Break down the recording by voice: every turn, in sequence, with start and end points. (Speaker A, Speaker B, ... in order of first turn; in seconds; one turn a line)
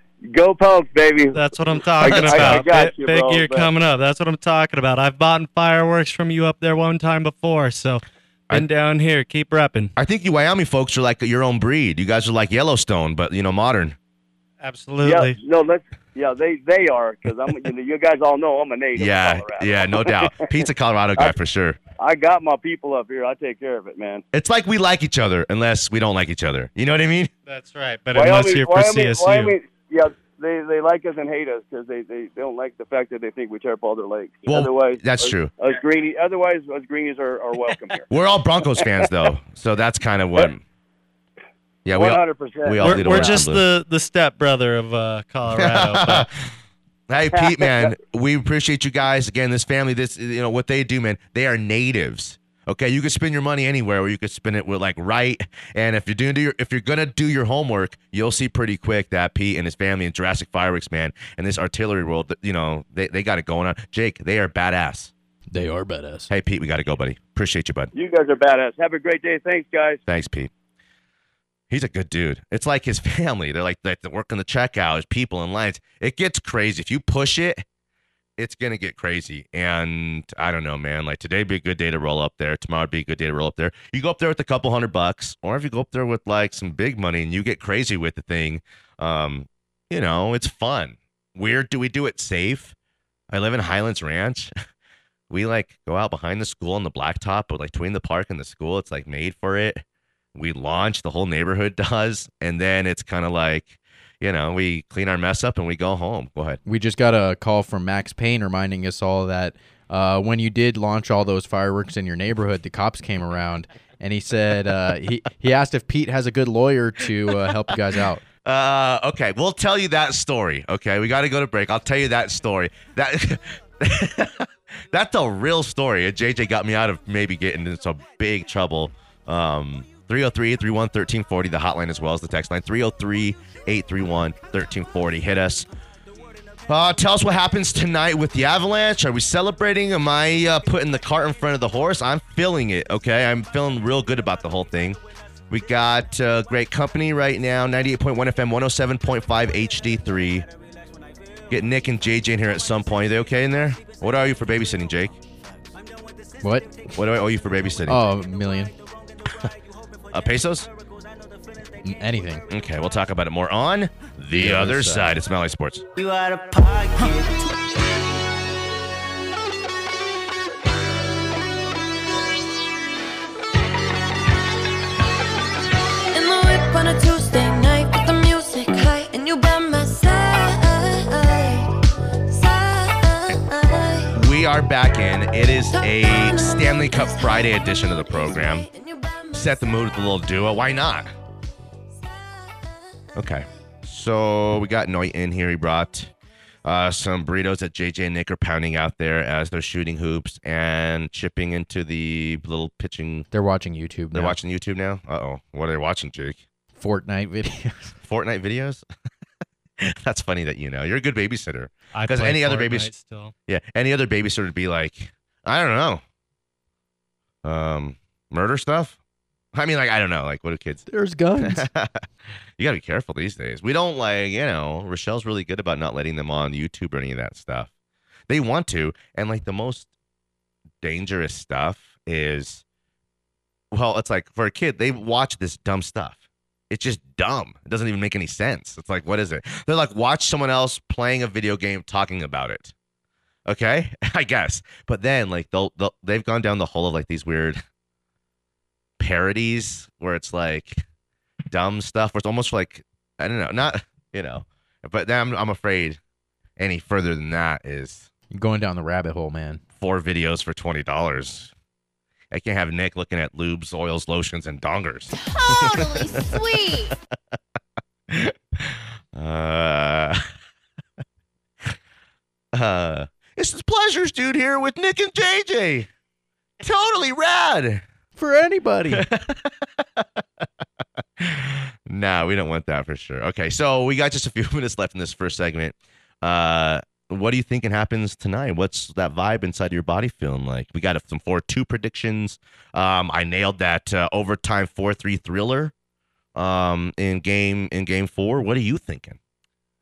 Speaker A: 0.2-3.7
Speaker B: 1.3-9.9
Speaker C: 2.1-2.6
Speaker C: 10.0-14.0
Speaker B: 14.6-15.4
Speaker A: 15.0-20.6
Speaker C: 18.9-21.8
Speaker A: 22.0-24.2
Speaker C: 24.3-27.3
Speaker B: 27.4-29.5
Speaker A: 28.1-38.1
Speaker C: 34.5-35.5
Speaker C: 38.1-40.6
Speaker C: 41.9-43.6
Speaker A: 41.9-43.5
Speaker B: 42.8-46.3
Speaker C: 45.6-46.3
Speaker C: 47.1-65.1
Speaker A: 47.3-47.9
Speaker D: 65.5-66.3
Speaker C: 66.3-67.9
Speaker A: 67.9-70.0
Speaker C: 70.1-70.5
Speaker C: 71.7-77.6
Speaker C: 78.4-92.7
Speaker C: 93.3-94.5
Speaker C: 95.3-99.8
Speaker C: 100.3-106.6
Speaker D: 106.6-118.2
Speaker C: 118.4-135.7
Speaker C: 136.7-145.0
Speaker C: 145.5-150.5
Speaker C: 151.5-155.2
Speaker D: 156.4-157.0
Speaker C: 156.9-158.1
Speaker D: 157.9-158.7
Speaker C: 160.1-160.7
Speaker D: 161.8-162.4
Speaker C: 162.5-165.9
Speaker D: 164.3-165.1
Speaker E: 176.1-181.7
Speaker E: 182.3-184.2
Speaker C: 184.1-188.7
Speaker E: 185.7-190.6
Speaker C: 189.3-191.1
Speaker E: 192.0-192.7
Speaker C: 193.1-196.1
Speaker C: 196.6-203.3
Speaker D: 203.3-204.4
Speaker C: 204.1-206.4
Speaker D: 206.8-208.0
Speaker C: 208.0-208.8
Speaker C: 209.8-212.9
Speaker B: 211.9-213.3
Speaker C: 213.5-216.0
Speaker C: 217.4-219.0
Speaker C: 219.5-220.8
Speaker D: 220.9-221.7
Speaker C: 221.4-222.0
Speaker C: 222.6-227.7
Speaker C: 228.3-229.9
Speaker C: 230.8-232.6
Speaker C: 233.7-242.7
Speaker C: 243.5-247.6
Speaker C: 249.0-250.8
Speaker C: 251.5-256.0
Speaker C: 256.6-258.1
Speaker D: 258.3-259.6
Speaker C: 259.8-261.5
Speaker C: 262.3-266.9
Speaker E: 265.2-266.9
Speaker C: 268.1-270.3
Speaker C: 272.5-275.9
Speaker C: 276.6-277.8
Speaker D: 278.2-279.1
Speaker C: 278.9-280.2
Speaker C: 281.2-295.7
Speaker C: 296.4-299.2